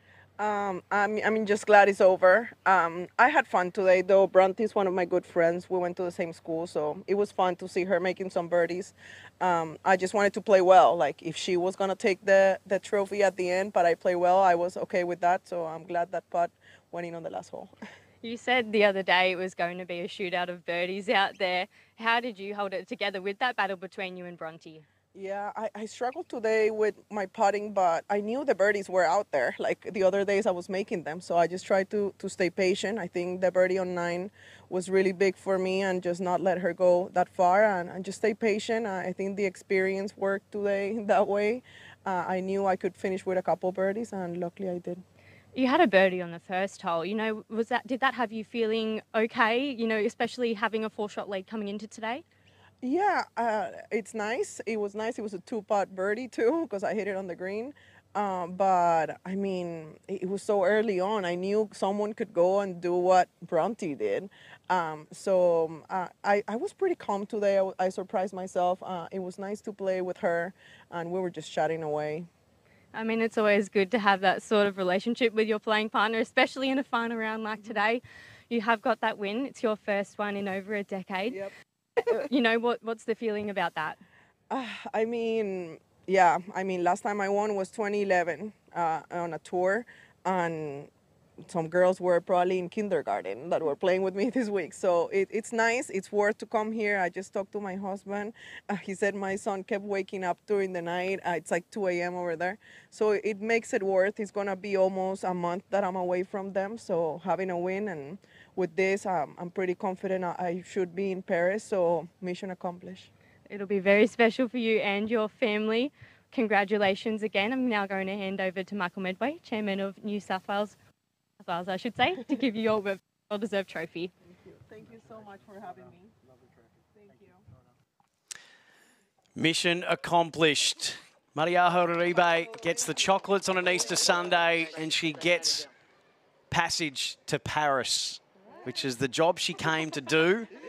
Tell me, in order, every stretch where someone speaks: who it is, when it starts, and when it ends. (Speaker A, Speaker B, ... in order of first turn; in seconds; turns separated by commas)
Speaker A: 0.4-17.7, Speaker B: 18.2-24.9, Speaker A: 25.1-45.0, Speaker B: 45.5-52.2, Speaker A: 52.8-72.3, Speaker B: 72.9-81.4, Speaker B: 82.0-84.0, Speaker A: 84.5-90.9, Speaker A: 91.5-113.1, Speaker B: 113.5-120.8, Speaker B: 121.4-124.1, Speaker A: 124.3-126.1, Speaker A: 127.0-127.4, Speaker C: 129.4-135.7, Speaker C: 136.5-140.5